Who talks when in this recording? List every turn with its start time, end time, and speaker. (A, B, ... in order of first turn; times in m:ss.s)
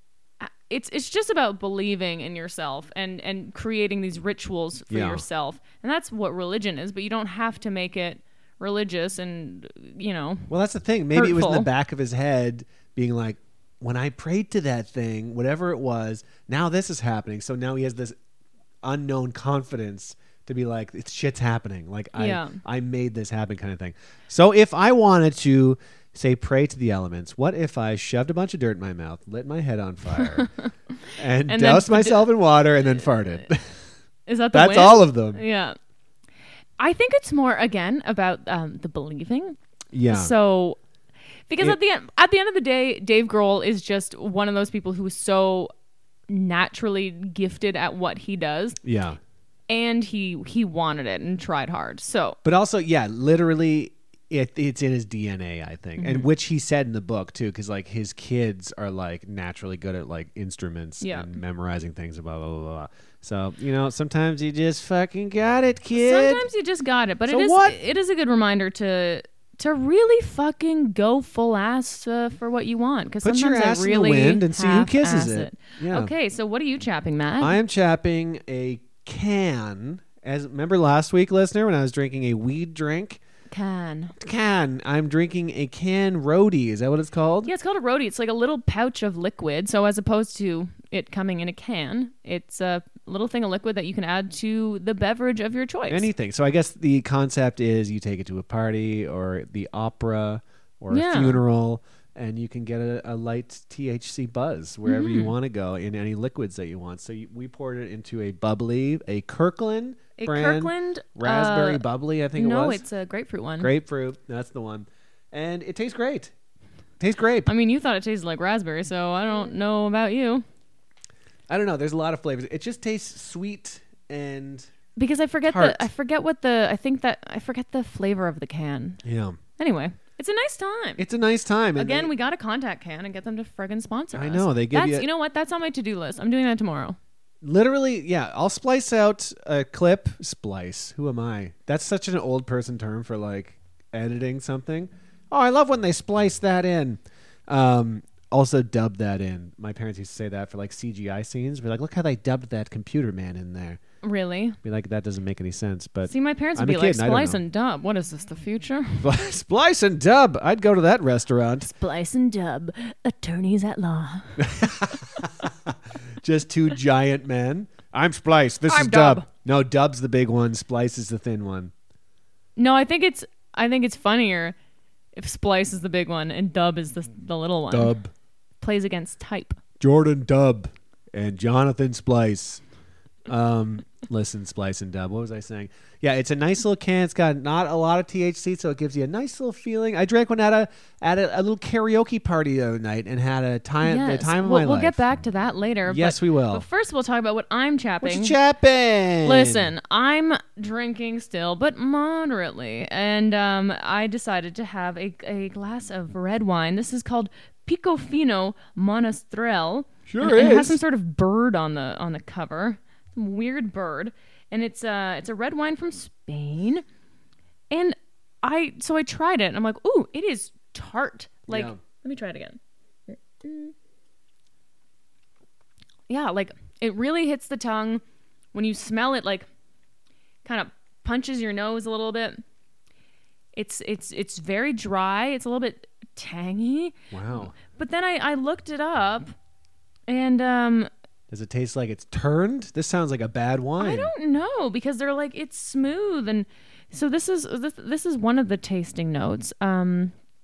0:00.4-0:10.5 A
0:04.9-0:05.2 B
0:10.5-0:18.2 B
0:11.1-0:11.7 A
0:18.8-0:30.5 B
0:22.2-0:22.6 A
0:30.1-0:32.2 A
0:31.2-0:33.8 B
0:34.3-0:35.8 A
0:34.5-0:35.4 B
0:36.8-0:39.6 A
0:39.9-0:40.3 B
0:40.1-0:40.8 A
0:41.5-0:45.7 A
0:46.3-0:48.8 A
0:48.8-0:49.2 B
0:49.7-0:52.4 A
0:52.4-1:06.5 B
0:56.0-0:56.3 A
1:01.0-1:01.4 A
1:05.9-1:17.6 A
1:07.3-1:07.8 B
1:13.2-1:16.1 B
1:17.4-1:23.2 B
1:23.5-1:24.2 A
1:24.2-1:27.5 B
1:27.4-1:36.1 A
1:35.9-1:52.8 B
1:40.9-1:41.4 A
1:44.8-1:45.3 A
1:50.2-1:51.8 A
1:52.4-1:53.7 A
1:53.6-1:56.3 B
1:57.0-1:57.5 B
1:57.5-2:00.4 A
2:01.5-2:04.7 B
2:05.0-2:09.0 A
2:05.4-2:05.9 B
2:09.0-2:09.4 B
2:09.6-2:11.0 A
2:11.0-2:12.1 B
2:11.8-2:17.0 A
2:14.1-2:15.1 B
2:17.4-2:33.8 B
2:34.0-2:34.6 A
2:34.6-2:37.4 B
2:36.1-2:39.2 A
2:39.0-2:41.7 B
2:41.7-2:44.5 A
2:44.4-2:51.7 B
2:48.7-2:49.3 A
2:52.6-2:54.6 A
2:55.2-2:57.9 A
2:57.7-2:58.1 B
2:58.6-2:59.6 A
2:59.8-3:02.6 B
3:03.3-3:15.0 B
3:13.8-3:18.4 A
3:15.9-3:16.6 B
3:18.0-3:19.7 B
3:19.2-3:36.8 A
3:30.1-3:30.8 B
3:37.7-3:43.7 A
3:41.5-3:41.8 B
3:46.1-3:48.0 A
3:48.5-3:49.5 A
3:50.4-3:52.4 A
3:53.6-3:59.3 A
3:57.1-3:57.6 B
4:00.1-4:00.9 A
4:01.3-4:04.1 B
4:03.8-4:10.1 A